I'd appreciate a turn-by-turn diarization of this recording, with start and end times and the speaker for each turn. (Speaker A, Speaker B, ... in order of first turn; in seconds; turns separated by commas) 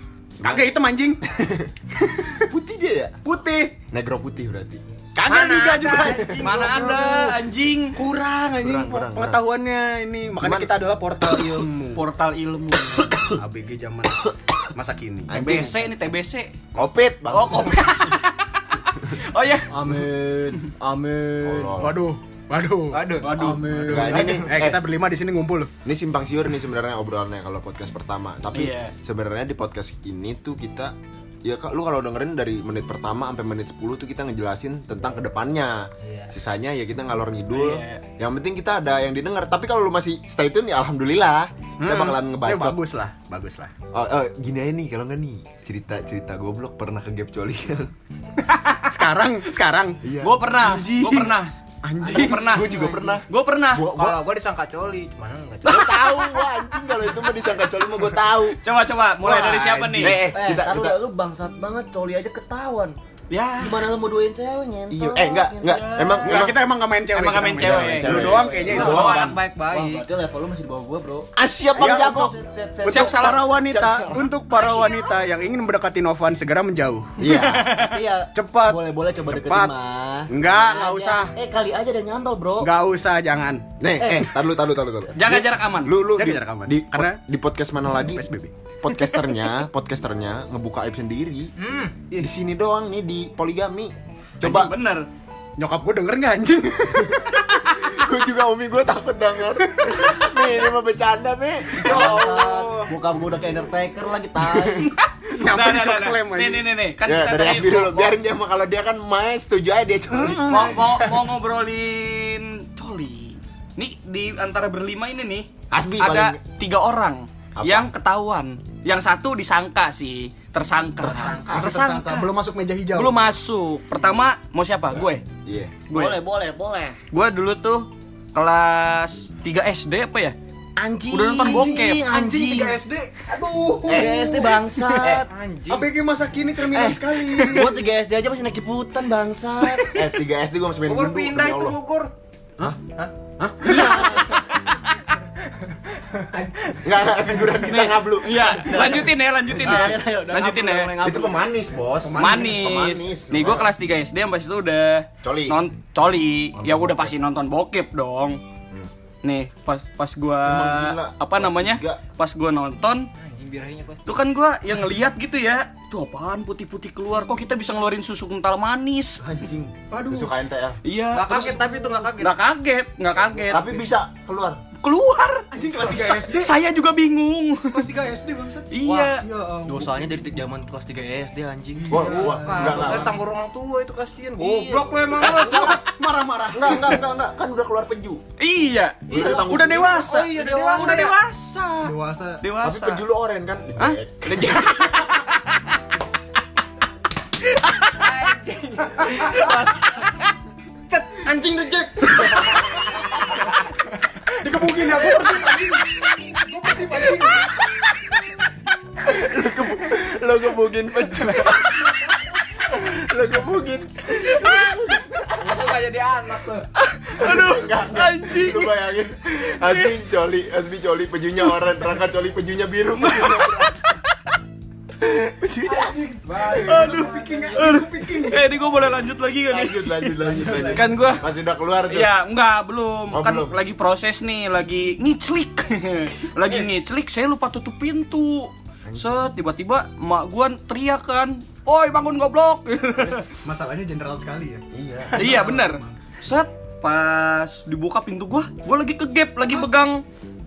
Speaker A: 0.4-0.7, Speaker B: 0.4-1.2, Speaker A: 1.2-1.7, Speaker B: 1.9-2.5, Speaker A: 2.4-3.2, Speaker B: 3.2-3.7, Speaker A: 3.9-4.8, Speaker B: 5.1-7.3, Speaker C: 5.2-7.1, Speaker D: 6.4-8.0, Speaker B: 7.9-12.0, Speaker A: 8.6-9.4, Speaker A: 10.4-10.7, Speaker D: 11.9-13.2, Speaker B: 13.3-15.5, Speaker A: 15.3-15.8, Speaker D: 15.3-16.5, Speaker A: 16.7-18.1, Speaker D: 17.3-18.5, Speaker D: 19.1-19.7, Speaker E: 19.7-21.8, Speaker A: 21.4-22.0, Speaker B: 21.8-25.7, Speaker C: 22.9-23.6, Speaker D: 23.2-23.8, Speaker E: 23.4-24.5, Speaker A: 23.9-24.8, Speaker A: 25.8-30.9, Speaker D: 28.5-28.9, Speaker A: 31.4-42.8, Speaker D: 37.5-38.0, Speaker B: 41.8-43.7, Speaker A: 43.9-47.9, Speaker D: 48.5-48.8, Speaker B: 48.9-50.0, Speaker A: 50.0-50.4, Speaker D: 50.2-51.5, Speaker B: 50.5-52.5, Speaker D: 52.0-52.7, Speaker A: 52.0-54.2, Speaker E: 52.7-53.2, Speaker D: 53.3-53.9, Speaker C: 53.9-56.1, Speaker A: 55.6-58.6, Speaker D: 58.5-60.2, Speaker B: 59.2-60.2, Speaker A: 59.9-61.0, Speaker E: 60.2-63.0, Speaker D: 63.3-63.8, Speaker E: 63.6-65.9, Speaker A: 64.9-66.6, Speaker D: 65.6-66.5, Speaker B: 66.2-69.2, Speaker D: 67.1-69.4, Speaker A: 67.5-69.4, Speaker E: 68.2-69.1, Speaker C: 68.6-70.0, Speaker E: 69.7-73.3, Speaker A: 71.3-72.3, Speaker B: 71.8-72.2, Speaker B: 72.8-77.4, Speaker D: 72.8-73.4, Speaker A: 73.7-74.2, Speaker E: 74.5-74.9, Speaker A: 77.2-77.7, Speaker D: 77.2-78.0, Speaker E: 77.7-82.7, Speaker B: 78.3-79.7, Speaker B: 80.3-81.3, Speaker B: 82.6-83.6, Speaker A: 83.8-88.2, Speaker E: 84.0-84.3, Speaker D: 85.1-86.0, Speaker B: 86.1-87.2, Speaker B: 87.9-88.5, Speaker A: 88.8-91.5, Speaker C: 91.6-92.3, Speaker A: 92.2-94.7, Speaker D: 94.4-95.1, Speaker B: 95.6-97.5, Speaker A: 97.0-102.4, Speaker B: 99.8-100.1, Speaker E: 101.8-104.9, Speaker B: 101.8-102.9, Speaker A: 104.5-104.9, Speaker D: 105.0-108.2, Speaker B: 105.3-106.7, Speaker A: 107.0-110.9, Speaker B: 110.1-111.2, Speaker D: 110.5-115.5, Speaker A: 115.7-116.4, Speaker D: 116.0-122.3, Speaker A: 117.5-117.9, Speaker E: 121.0-121.8, Speaker C: 121.0-121.4, Speaker B: 121.5-123.1, Speaker D: 122.9-125.2, Speaker A: 125.4-125.8, Speaker D: 125.9-126.2, Speaker E: 125.9-127.0, Speaker D: 127.1-130.3, Speaker E: 130.8-132.8, Speaker D: 131.1-132.0, Speaker B: 131.4-134.6, Speaker A: 133.8-134.3, Speaker E: 133.9-135.3, Speaker A: 134.9-135.2, Speaker C: 135.0-135.9, Speaker B: 135.7-137.8, Speaker E: 136.7-140.0, Speaker A: 139.9-141.8, Speaker C: 140.8-142.1, Speaker B: 143.4-143.9, Speaker A: 143.6-144.3, Speaker C: 143.7-144.4, Speaker D: 143.8-144.4, Speaker C: 146.3-146.7, Speaker A: 146.8-148.9, Speaker D: 147.6-150.9, Speaker E: 148.6-151.5, Speaker A: 149.6-150.0, Speaker A: 151.0-153.7, Speaker B: 152.0-152.7, Speaker D: 152.1-158.4, Speaker A: 155.2-155.6, Speaker A: 156.6-157.1, Speaker D: 159.2-163.1, Speaker A: 160.4-162.0, Speaker C: 163.2-164.2, Speaker D: 164.1-169.2, Speaker A: 169.2-170.8, Speaker B: 169.9-170.3, Speaker D: 170.8-173.8, Speaker C: 171.1-172.3, Speaker C: 173.3-173.7, Speaker A: 173.5-174.6, Speaker D: 174.8-177.9, Speaker B: 175.5-176.5, Speaker B: 177.7-179.9, Speaker D: 178.7-179.2, Speaker E: 178.8-179.1, Speaker E: 179.6-182.9, Speaker B: 181.8-183.0, Speaker A: 181.9-183.2, Speaker C: 181.9-185.8, Speaker B: 185.2-187.0, Speaker A: 185.2-185.7, Speaker A: 186.5-188.2, Speaker D: 188.4-193.0, Speaker A: 189.1-190.1, Speaker C: 189.1-191.2, Speaker B: 189.8-191.1, Speaker B: 191.8-192.4, Speaker A: 192.6-194.7, Speaker D: 193.8-195.3, Speaker C: 197.7-200.1, Speaker C: 200.9-202.8, Speaker B: 204.4-207.5, Speaker A: 209.0-211.9, Speaker A: 212.7-215.7, Speaker C: 215.4-216.7, Speaker D: 216.9-218.7, Speaker A: 217.1-223.7, Speaker D: 223.0-223.8, Speaker A: 225.0-225.9, Speaker C: 225.7-227.7, Speaker B: 225.7-228.6, Speaker D: 226.5-231.2, Speaker A: 229.5-232.1, Speaker B: 230.2-231.1, Speaker D: 231.9-243.3, Speaker A: 233.1-233.5, Speaker A: 238.8-239.2, Speaker B: 243.4-246.0, Speaker A: 244.7-245.3, Speaker D: 245.1-250.0